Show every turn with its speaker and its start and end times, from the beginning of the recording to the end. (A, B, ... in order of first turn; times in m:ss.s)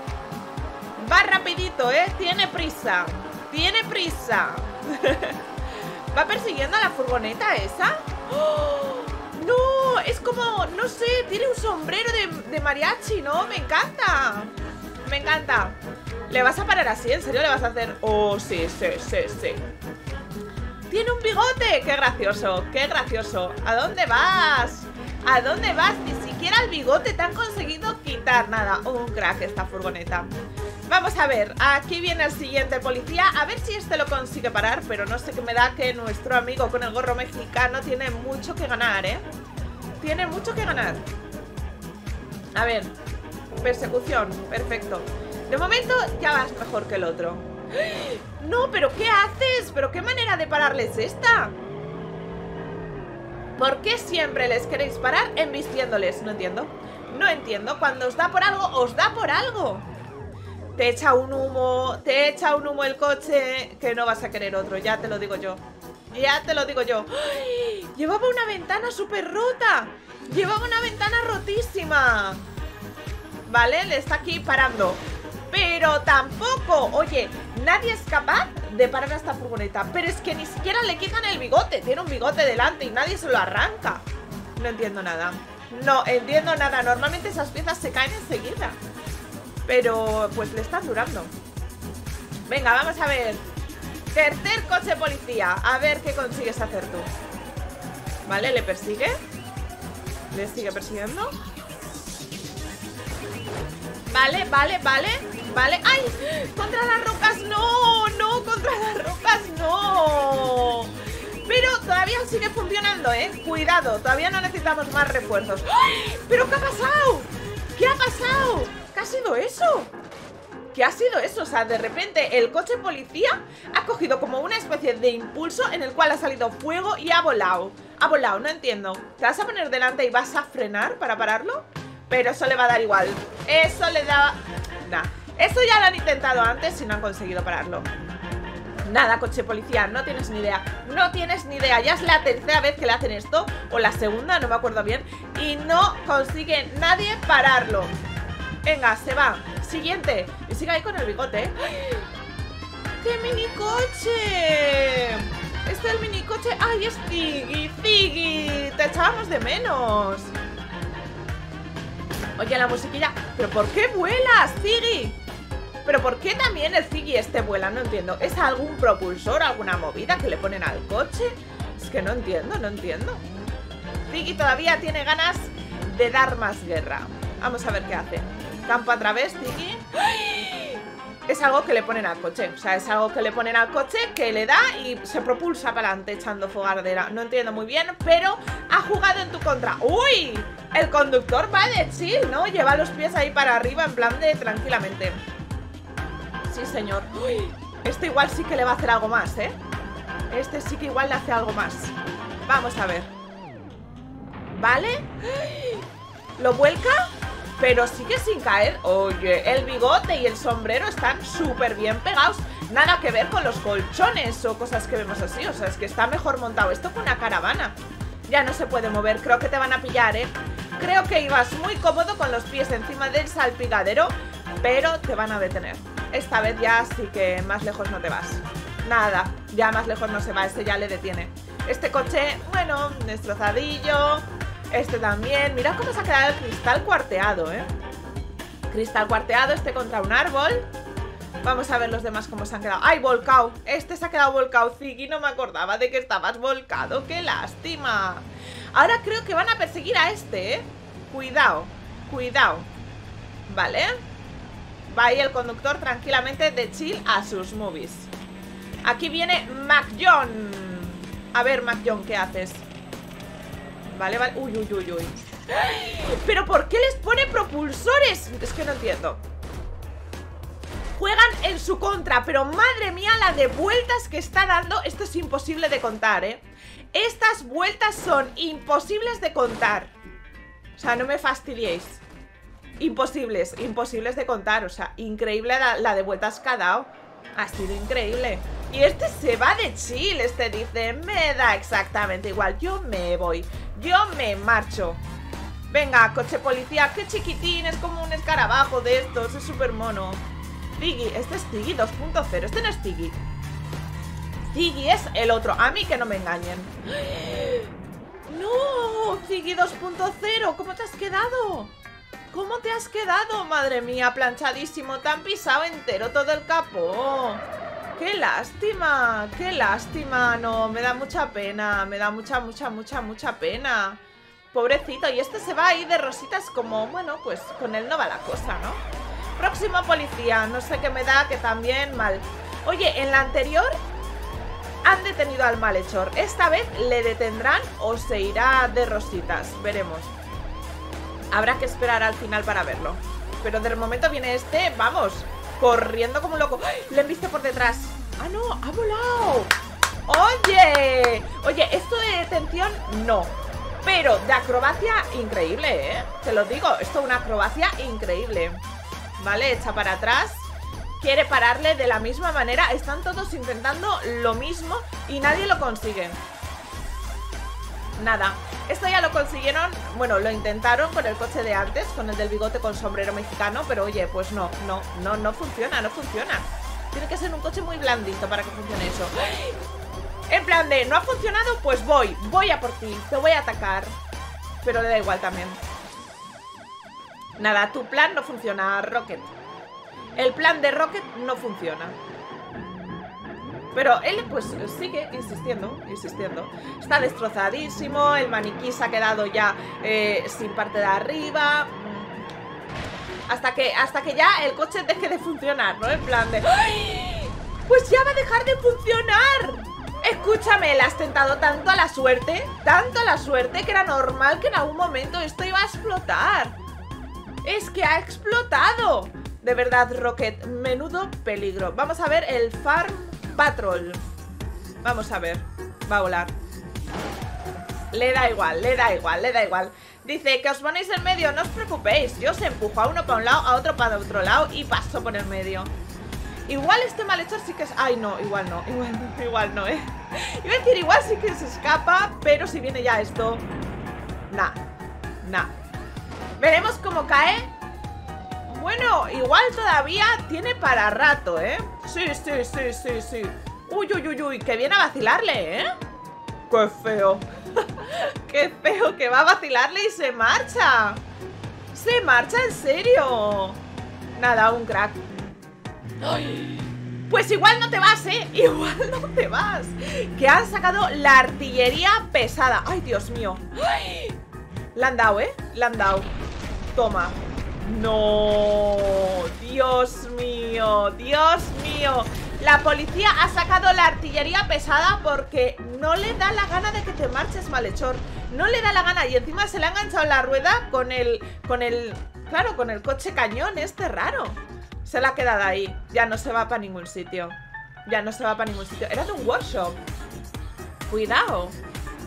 0:01.0-0:05.4 A
0:06.1-0:15.8 A
0:16.3-0:19.6 A
0:20.9-0:30.3 A
0:30.9-0:39.2 A
0:40.0-0:41.0 A
0:42.5-0:43.0 A
0:43.6-0:51.6 A
0:53.6-0:59.9 A
1:00.8-1:12.4 A
1:13.5-1:24.0 A
1:24.6-1:28.8 A
1:29.6-1:31.3 A
1:32.5-1:33.4 A
1:34.1-1:37.1 A
1:38.2-1:39.2 A
1:40.3-1:41.4 A
1:44.1-1:59.9 A
2:00.7-2:17.9 A
2:18.8-2:27.9 A
2:28.6-2:32.0 A
2:33.0-2:40.3 A
2:42.4-2:45.2 A
2:45.8-2:53.2 A
2:54.1-3:15.2 A
3:16.5-3:19.6 A
3:20.3-3:23.1 A
3:24.5-3:25.8 A
3:26.4-3:57.7 A
3:58.7-4:00.7 A
4:01.4-4:12.7 A
4:13.5-4:14.0 A
4:14.9-4:18.1 A
4:18.8-4:22.6 A
4:23.9-4:29.2 A
4:30.9-4:39.9 A
4:40.8-4:42.0 A
4:42.8-4:55.0 A
4:55.7-5:03.2 A
5:04.5-5:07.7 A
5:08.2-5:11.7 A
5:12.3-5:17.4 A
5:18.0-5:24.0 A
5:24.5-5:28.8 A
5:29.4-5:33.8 A
5:34.8-5:40.1 A
5:41.3-5:49.5 A
5:50.0-5:58.6 A
5:59.2-6:06.2 A
6:08.0-6:19.6 A
6:20.3-6:23.9 A
6:24.6-6:25.6 A
6:27.4-6:29.3 A
6:30.2-6:32.0 A
6:33.7-6:42.2 A
6:43.3-6:56.6 A
6:57.4-7:04.0 A
7:04.8-7:06.3 A
7:07.9-7:15.7 A
7:16.5-7:23.5 A
7:24.3-7:24.6 A
7:25.2-7:25.5 A
7:26.4-7:27.5 A
7:28.4-7:35.7 A
7:36.5-7:41.0 A
7:41.7-7:43.6 A
7:44.2-7:45.0 A
7:46.0-7:54.2 A
7:54.7-7:56.1 A
7:56.7-8:19.8 A
8:20.9-8:21.6 A